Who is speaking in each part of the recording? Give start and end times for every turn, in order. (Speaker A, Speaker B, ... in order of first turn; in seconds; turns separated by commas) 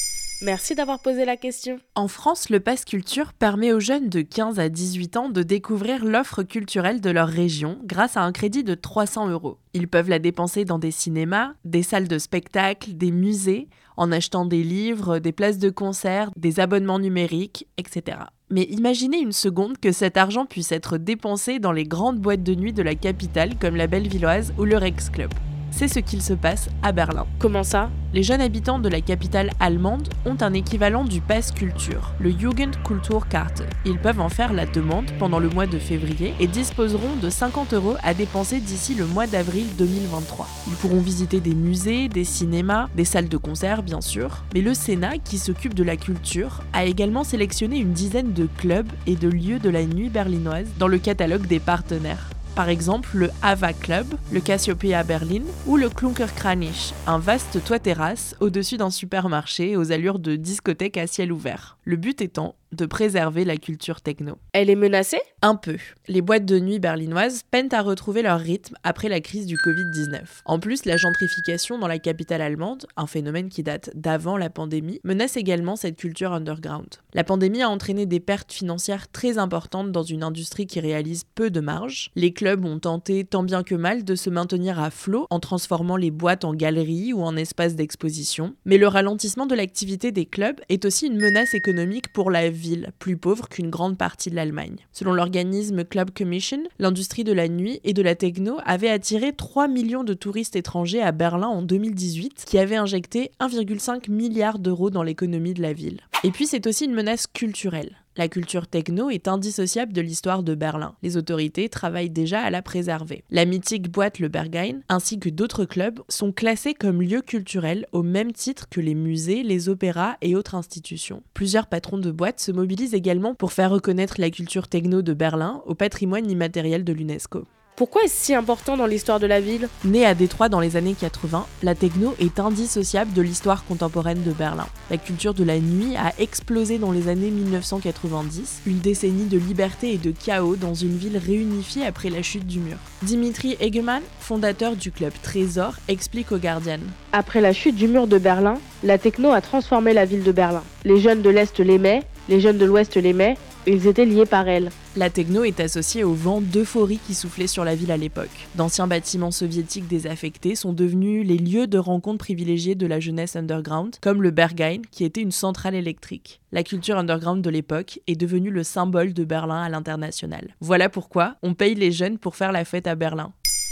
Speaker A: 0.4-1.8, Speaker B: 1.9-27.3, Speaker A: 27.4-27.9, Speaker B: 28.1-64.4, Speaker A: 64.5-65.2, Speaker B: 65.4-127.5, Speaker A: 127.8-129.7, Speaker B: 129.8-147.0, Speaker A: 147.1-154.8, Speaker B: 154.9-173.3